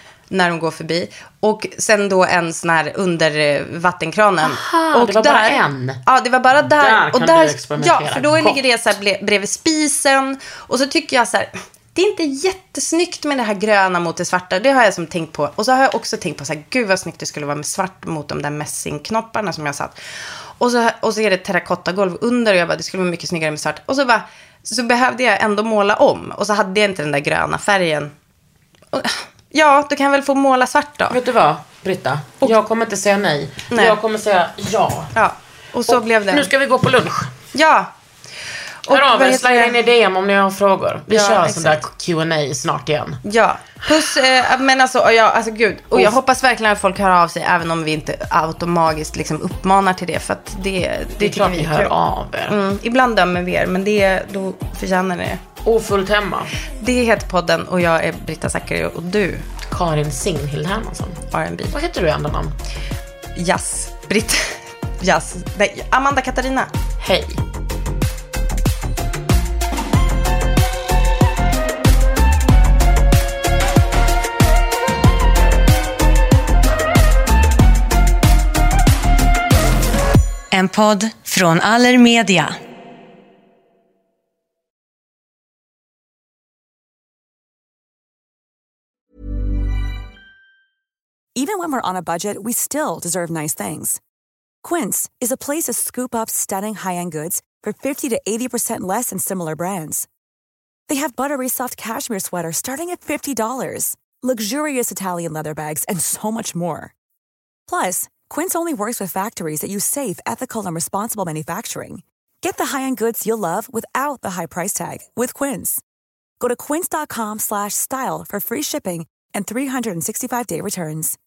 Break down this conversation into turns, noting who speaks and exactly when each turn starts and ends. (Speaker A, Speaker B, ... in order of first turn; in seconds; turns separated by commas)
Speaker A: 0.3-19.9, Speaker B: 4.4-6.0, Speaker B: 6.7-8.6, Speaker A: 20.6-28.1, Speaker A: 28.9-31.1, Speaker B: 31.1-35.1, Speaker A: 33.7-34.0, Speaker A: 35.1-36.5, Speaker B: 35.9-37.3, Speaker A: 37.5-37.9, Speaker A: 38.9-39.7, Speaker B: 38.9-43.2, Speaker A: 41.1-41.8, Speaker A: 43.2-51.9, Speaker B: 51.2-52.6, Speaker A: 52.5-55.4, Speaker B: 55.6-56.5, Speaker A: 56.8-59.4, Speaker B: 59.7-61.2, Speaker A: 61.3-61.7, Speaker B: 61.7-62.5, Speaker A: 63.4-66.7, Speaker B: 67.0-67.4, Speaker C: 80.5-82.6, Speaker D: 91.3-94.0, Speaker D: 94.6-100.1, Speaker D: 100.9-106.9, Speaker D: 107.7-115.8, Speaker D: 116.4-121.2